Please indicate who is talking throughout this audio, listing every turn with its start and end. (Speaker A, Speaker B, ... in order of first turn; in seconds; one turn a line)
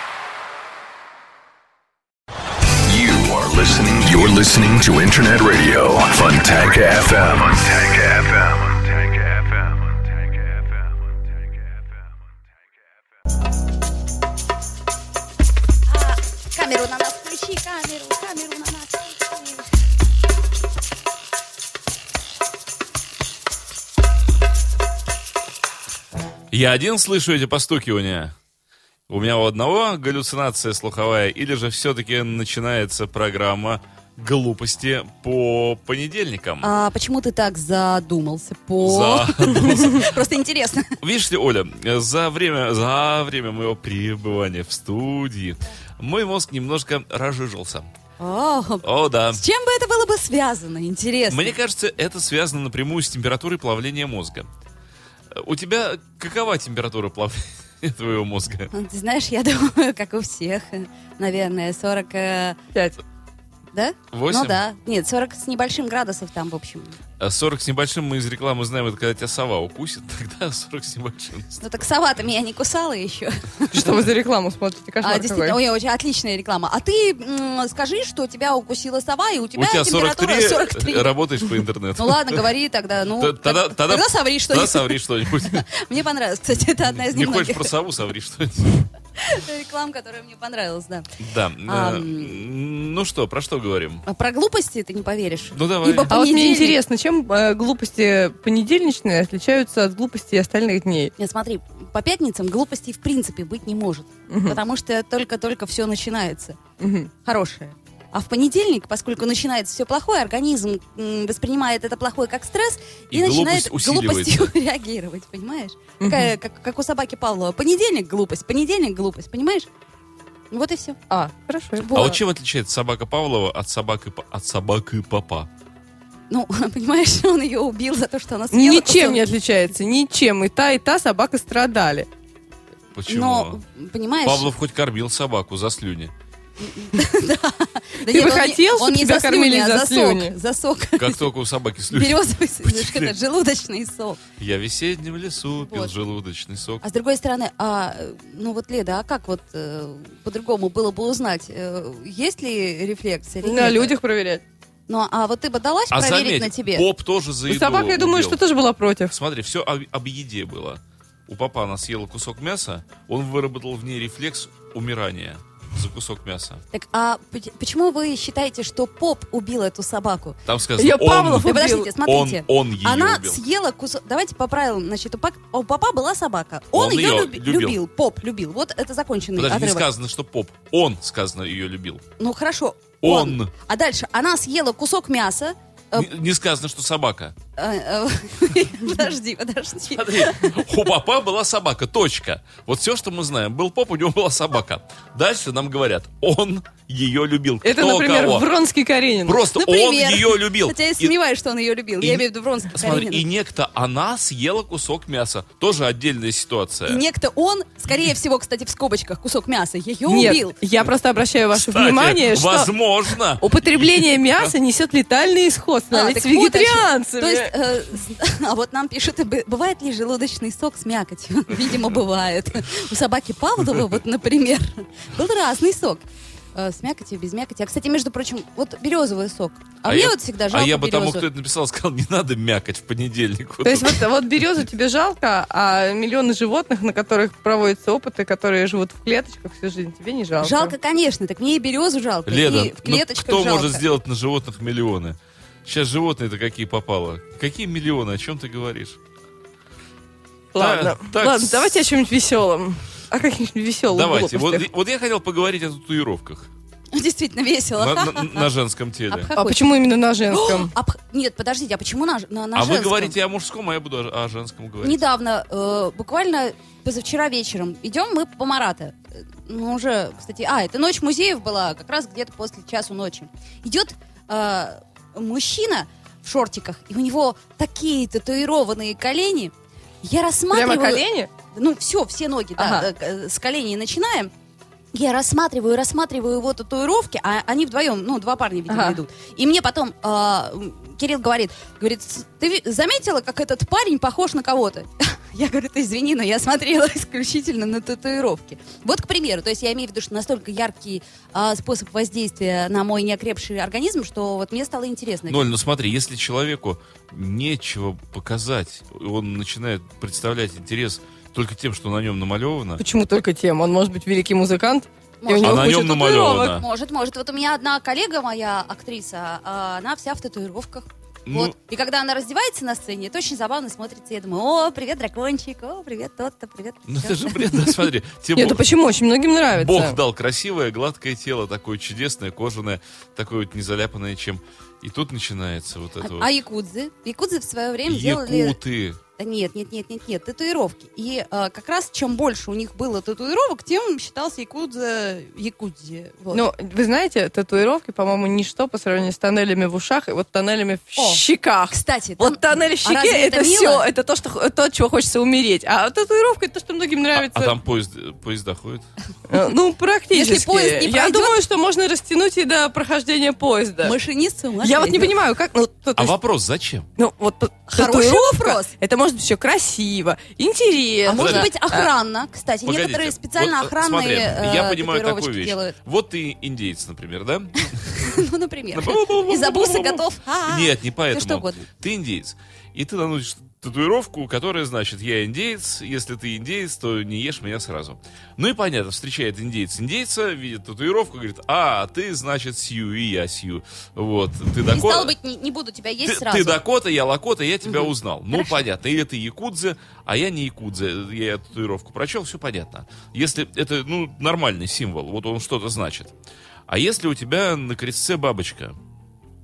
Speaker A: 2.8-11.8
Speaker B: 15.9-19.7
Speaker C: 26.5-28.3
Speaker C: 29.1-36.7
Speaker B: 36.6-41.0
Speaker C: 38.8-40.1
Speaker C: 41.0-47.9
Speaker B: 48.2-51.5
Speaker C: 48.8-49.4
Speaker C: 51.3-54.5
Speaker C: 55.3-58.7
Speaker B: 58.7-62.6
Speaker B: 63.7-67.0
Speaker C: 64.1-64.6
Speaker C: 67.2-71.6
Speaker B: 71.6-73.9
Speaker D: 73.7-75.6
Speaker B: 75.0-81.1
Speaker C: 79.5-82.5
Speaker B: 82.0-87.8
Speaker C: 83.2-85.7
Speaker C: 86.9-88.9
Speaker B: 89.2-91.1
Speaker C: 91.2-94.0
Speaker B: 91.6-92.4
Speaker B: 94.0-96.8
Speaker C: 95.5-96.2
Speaker D: 96.1-101.1
Speaker B: 101.2-106.6
Speaker D: 104.3-104.6
Speaker D: 106.8-107.1
Speaker B: 107.2-119.7
Speaker C: 113.1-114.5
Speaker D: 116.0-116.3
Speaker B: 120.5-121.0
Speaker D: 121.1-122.0
Speaker B: 121.8-122.2
Speaker C: 121.9-125.5
Speaker B: 126.3-129.2
Speaker D: 128.5-132.1
Speaker C: 132.9-133.6
Speaker B: 133.1-134.5
Speaker C: 134.2-136.1
Speaker B: 136.6-141.2
Speaker D: 138.0-140.3
Speaker C: 141.0-143.1
Speaker B: 141.9-144.2
Speaker C: 144.4-146.8
Speaker B: 145.5-145.9
Speaker B: 146.8-153.9
Speaker D: 153.4-154.4
Speaker B: 154.9-156.9
Speaker C: 155.9-158.4
Speaker D: 157.5-159.1
Speaker C: 159.1-166.6
Speaker B: 166.7-170.4
Speaker C: 170.4-173.4
Speaker D: 170.8-171.9
Speaker B: 171.4-179.9
Speaker C: 176.7-177.8
Speaker C: 179.3-182.0
Speaker B: 182.2-186.1
Speaker C: 183.0-183.5
Speaker C: 185.9-187.3
Speaker B: 187.6-190.6
Speaker C: 189.9-198.5
Speaker D: 197.6-199.4
Speaker C: 199.2-201.1
Speaker B: 199.5-203.2
Speaker C: 202.0-207.0
Speaker B: 206.9-210.6
Speaker D: 210.1-217.5
Speaker C: 211.5-214.5
Speaker B: 215.9-226.0
Speaker B: 226.5-231.3
Speaker C: 229.8-234.1
Speaker D: 233.6-240.7
Speaker B: 240.4-243.8
Speaker C: 242.2-249.0
Speaker D: 250.5-254.7
Speaker C: 250.6-251.8
Speaker C: 253.9-256.5
Speaker B: 256.9-258.5
Speaker C: 257.8-259.3
Speaker B: 259.1-259.7
Speaker D: 259.4-260.7
Speaker B: 260.3-263.1
Speaker C: 262.5-265.0
Speaker B: 264.8-284.3
Speaker D: 280.5-281.3
Speaker D: 282.6-282.9
Speaker B: 284.9-305.4
Speaker D: 288.7-289.0
Speaker C: 305.3-312.8
Speaker D: 312.8-316.6
Speaker B: 315.2-327.7
Speaker C: 315.4-316.6
Speaker C: 321.2-321.5
Speaker C: 326.9-328.6
Speaker D: 328.4-330.0
Speaker C: 329.5-336.3
Speaker B: 336.0-338.6
Speaker C: 337.9-339.0
Speaker B: 339.2-346.5
Speaker D: 346.3-357.6
Speaker B: 351.0-353.9
Speaker C: 357.1-358.9
Speaker D: 359.3-363.9
Speaker B: 360.1-361.4
Speaker B: 363.8-365.1
Speaker D: 364.6-366.1
Speaker C: 366.0-366.9
Speaker D: 367.0-371.9
Speaker B: 367.7-368.7
Speaker B: 371.1-375.8
Speaker C: 371.1-371.5
Speaker C: 372.6-378.2
Speaker B: 377.9-381.7
Speaker C: 378.7-395.1
Speaker B: 394.6-396.6
Speaker C: 396.0-406.1
Speaker B: 397.6-398.6
Speaker C: 406.7-408.8